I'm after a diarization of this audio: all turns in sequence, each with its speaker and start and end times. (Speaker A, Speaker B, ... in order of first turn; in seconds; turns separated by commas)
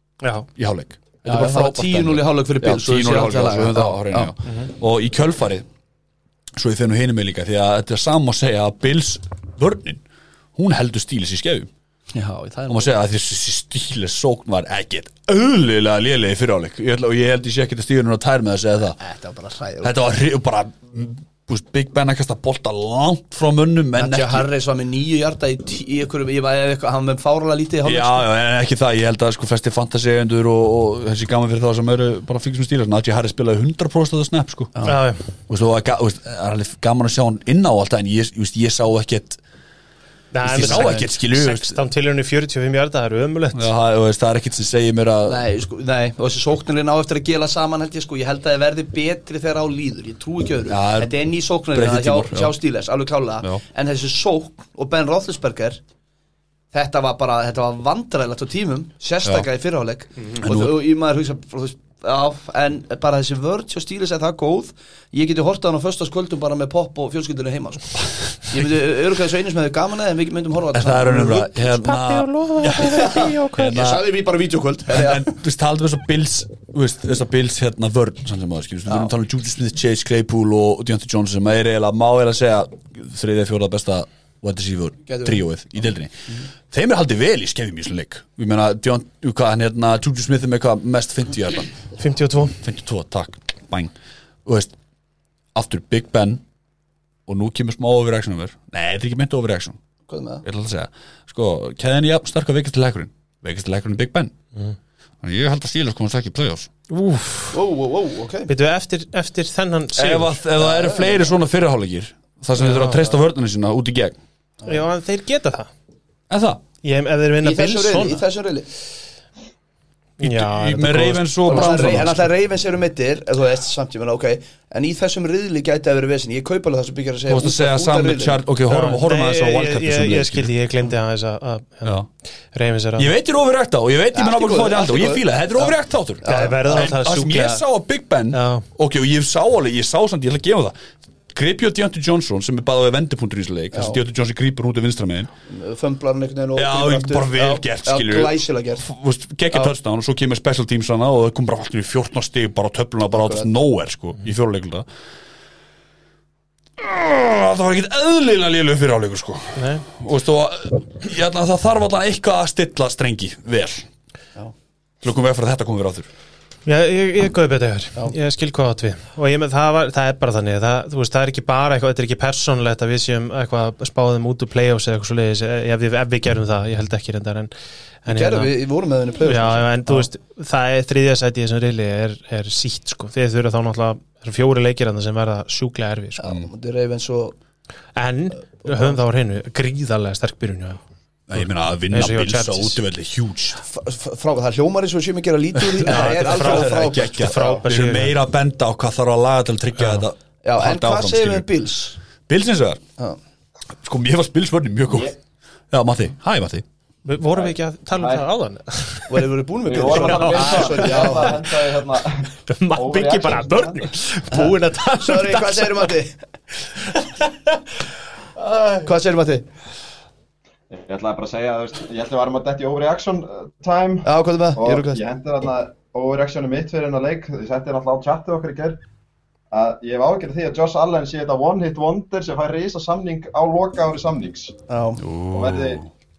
Speaker A: 0.2-0.5, Speaker B: 0.6-5.6, Speaker C: 1.2-4.3, Speaker B: 6.5-10.0, Speaker B: 10.5-11.7, Speaker C: 12.1-12.9, Speaker B: 12.7-19.0, Speaker C: 19.0-20.0, Speaker B: 19.8-24.5, Speaker C: 23.9-28.3, Speaker B: 27.8-34.8, Speaker A: 34.8-35.2, Speaker B: 35.5-39.4, Speaker A: 40.3-43.7, Speaker B: 40.4-41.8, Speaker C: 40.6-41.0, Speaker B: 43.5-45.4, Speaker C: 45.2-55.8, Speaker B: 50.7-52.6, Speaker C: 56.7-71.5, Speaker B: 60.4-60.7, Speaker B: 68.0-68.6, Speaker B: 70.7-74.0, Speaker A: 71.6-73.8, Speaker C: 72.9-75.3, Speaker B: 74.9-86.1, Speaker C: 85.1-85.4, Speaker B: 86.7-91.7, Speaker A: 92.0-92.6, Speaker B: 92.6-93.9, Speaker B: 94.4-94.7, Speaker B: 95.5-96.4, Speaker B: 97.3-99.8, Speaker C: 100.1-100.4, Speaker B: 100.4-104.3, Speaker B: 105.2-106.7, Speaker A: 106.9-107.6, Speaker C: 107.5-108.5, Speaker A: 108.5-110.4, Speaker B: 109.9-114.2, Speaker C: 110.6-111.3, Speaker A: 112.6-113.1, Speaker A: 114.6-115.7, Speaker B: 116.3-116.6, Speaker A: 116.8-118.2, Speaker C: 117.4-118.7, Speaker A: 120.2-122.1, Speaker B: 120.2-122.2, Speaker C: 121.5-128.4, Speaker B: 127.3-130.5, Speaker A: 128.7-131.9, Speaker A: 132.5-133.1, Speaker B: 133.0-140.7, Speaker C: 134.1-136.9, Speaker A: 136.2-137.6, Speaker A: 138.3-138.6, Speaker B: 141.3-145.3, Speaker C: 143.7-144.0, Speaker C: 145.5-148.9, Speaker B: 146.5-154.8, Speaker C: 153.1-153.5, Speaker B: 156.8-163.9, Speaker A: 159.6-159.8, Speaker B: 165.0-166.1, Speaker A: 166.7-177.5, Speaker A: 178.0-178.5, Speaker C: 178.1-180.1, Speaker A: 179.2-186.3, Speaker C: 186.2-187.3, Speaker A: 187.9-190.8, Speaker C: 188.7-188.9, Speaker B: 191.3-193.6, Speaker A: 191.9-192.8, Speaker C: 193.6-197.5, Speaker B: 195.6-201.5, Speaker A: 195.8-198.1, Speaker C: 200.4-202.0, Speaker B: 202.3-202.8, Speaker B: 203.8-205.1, Speaker D: 204.9-205.1, Speaker B: 205.7-206.6, Speaker A: 207.0-209.3, Speaker D: 207.3-208.2, Speaker C: 209.1-211.4, Speaker D: 209.7-213.9, Speaker A: 209.8-211.4, Speaker A: 212.5-215.9, Speaker C: 214.3-216.2, Speaker A: 216.9-217.3, Speaker A: 218.4-218.8, Speaker C: 218.8-219.4, Speaker D: 220.7-228.8, Speaker C: 224.0-225.0, Speaker D: 229.5-234.6, Speaker C: 234.7-235.0, Speaker B: 235.0-235.9, Speaker D: 235.3-235.8